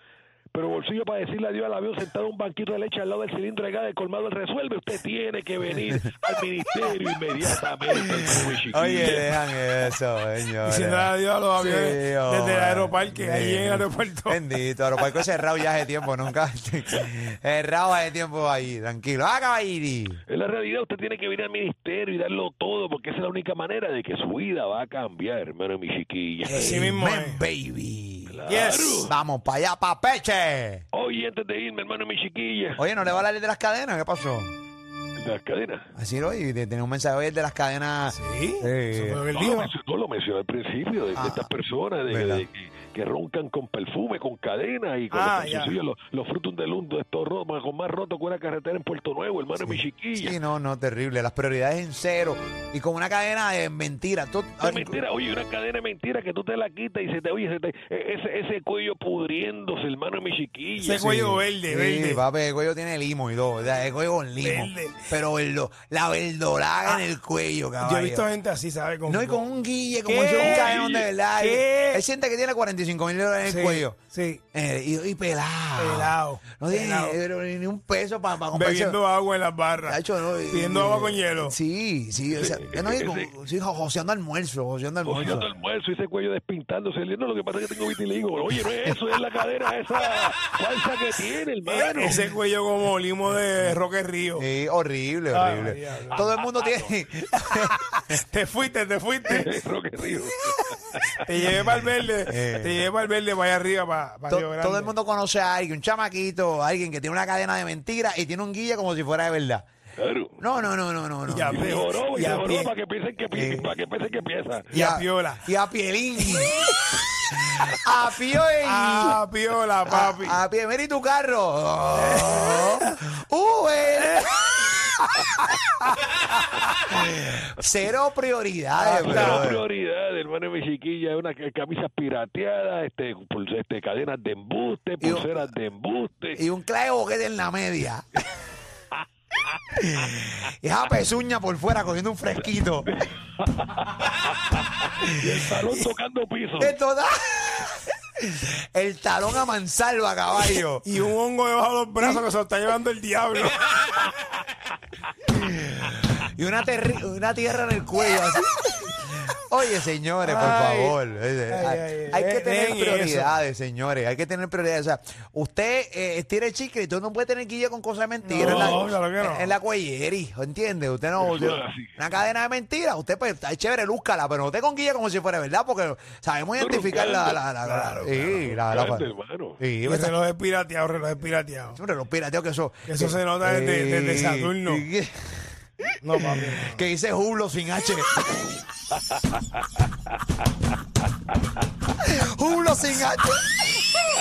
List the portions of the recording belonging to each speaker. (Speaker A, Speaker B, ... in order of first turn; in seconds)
Speaker A: 0.5-9.2, 20.3-26.6, 28.3-29.1, 30.9-32.8, 35.2-35.9, 39.3-50.4, 54.6-61.0, 70.3-70.9, 82.3-83.3, 85.0-92.2, 96.1-96.8, 99.4-101.0, 110.0-110.4, 111.5-114.7, 128.8-136.4, 142.9-144.6, 145.2-146.8, 171.2-171.9, 176.6-177.4, 178.7-179.6
Speaker B: 8.7-20.2, 26.5-28.4, 29.1-30.8, 32.8-34.5, 35.9-39.3, 41.1-41.5, 42.1-42.4, 49.6-55.0, 61.0-68.3, 69.1-74.0, 74.5-79.0, 79.8-85.5, 94.3-97.8, 102.3-102.8, 104.3-109.7, 110.4-111.7, 113.3-113.7, 114.7-117.0, 117.7-119.2, 119.8-124.6, 127.0-129.6, 135.0-135.3, 136.3-138.1, 139.8-142.9, 145.0-145.3, 146.6-150.8, 155.3-179.1, 179.6-180.1, 181.7-188.2, 192.0-193.9
Speaker C: 10.6-14.4, 26.5-27.4, 28.5-29.1, 38.1-39.7, 45.1-45.8, 60.8-62.2, 64.4-65.0, 67.8-69.4, 70.0-72.0, 73.4-74.4, 75.8-77.2, 78.5-81.5, 91.6-94.4, 95.3-96.2, 98.1-99.5, 101.2-104.9, 111.3-112.7, 114.7-115.4, 116.2-116.5, 118.6-120.4, 122.0-122.8, 129.0-129.4, 150.8-153.6, 160.2-161.0, 161.5-163.4, 168.2-169.5, 177.6-178.5, 179.8-181.8, 182.8-184.8, 186.0-186.8